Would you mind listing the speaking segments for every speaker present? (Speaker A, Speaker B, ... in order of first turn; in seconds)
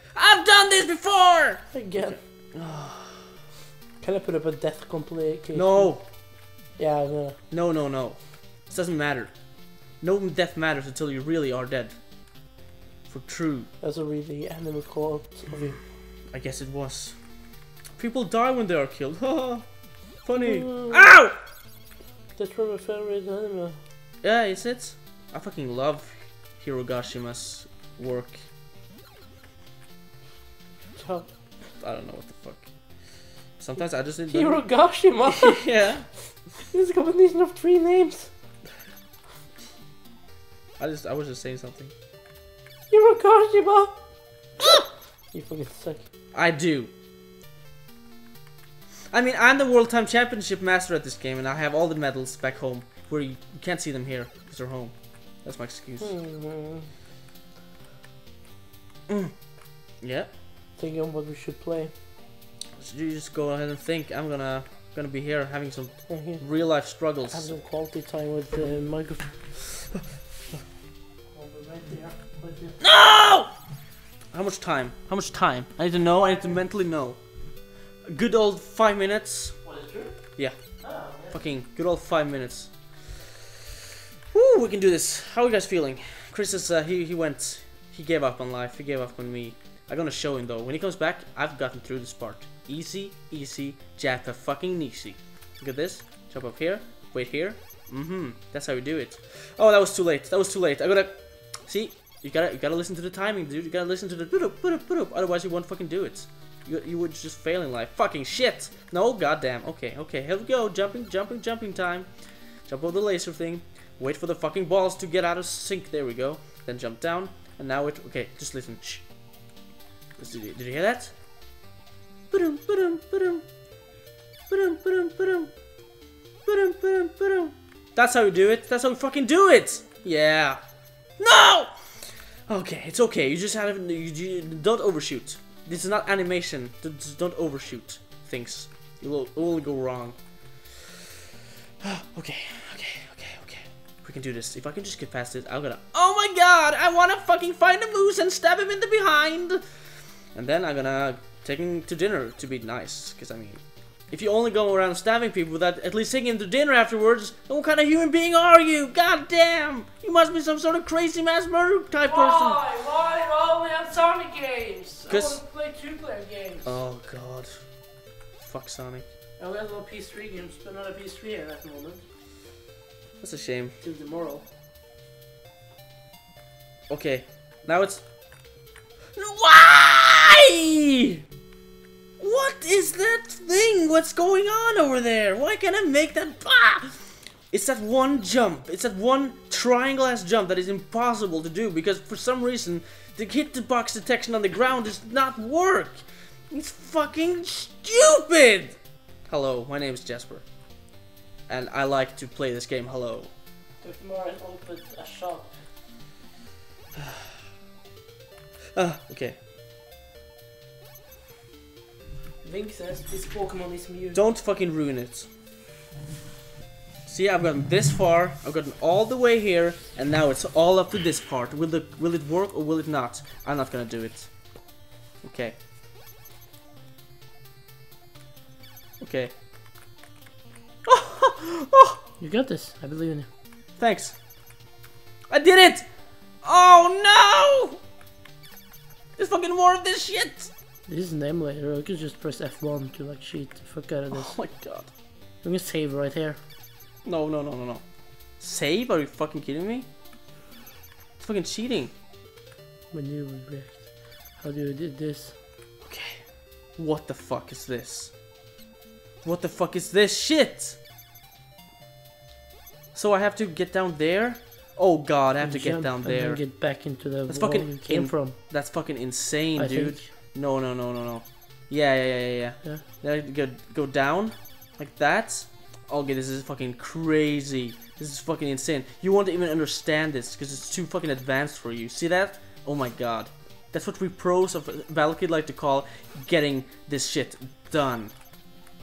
Speaker A: 0.1-3.3, 5.5-6.0, 7.5-9.3, 10.0-11.9, 13.1-13.7, 16.3-17.2, 17.9-19.7, 20.2-21.4, 24.2-28.4, 31.8-32.7, 33.6-34.7, 35.3-36.1, 40.8-41.9, 46.3-46.9, 49.1-56.1, 60.0-60.3, 62.8-67.6, 72.8-73.5, 74.3-77.2, 78.0-79.6, 81.3-82.9, 84.3-112.1, 112.6-119.0, 120.2-121.2, 122.3-123.4, 124.5-125.5, 126.5-130.6, 131.2-140.2, 141.8-149.7, 150.3-162.6, 165.1-165.4, 166.6-167.6, 168.4-169.1, 173.2-173.8, 176.9-178.0, 179.2-181.2, 182.2-200.4, 201.5-203.3, 208.7-209.4, 214.1-215.3, 217.1-224.6, 225.2-225.6, 229.0-229.3, 230.9-232.0, 233.8-234.2, 235.3-235.9, 236.4-237.8, 239.2-240.5, 244.1-244.9, 247.0-247.8, 248.4-249.9, 251.2-251.9, 255.8-258.1, 259.2-260.8, 262.9-266.5, 267.3-288.1
Speaker B: 1.7-2.2, 4.0-6.0, 6.8-7.4, 13.8-15.8, 20.4-21.1, 22.4-23.8, 30.9-31.3, 34.3-35.7, 36.5-38.3, 42.9-43.9, 45.3-46.0, 56.0-56.9, 60.8-61.9, 66.1-66.4, 67.0-69.5, 71.3-72.8, 79.6-80.1, 80.8-81.3, 162.0-166.8, 169.4-172.0, 173.8-174.4, 203.8-205.6, 212.4-214.2, 232.2-233.3, 240.9-244.4, 245.4-246.4, 252.9-255.3, 265.4-268.4, 269.6-270.1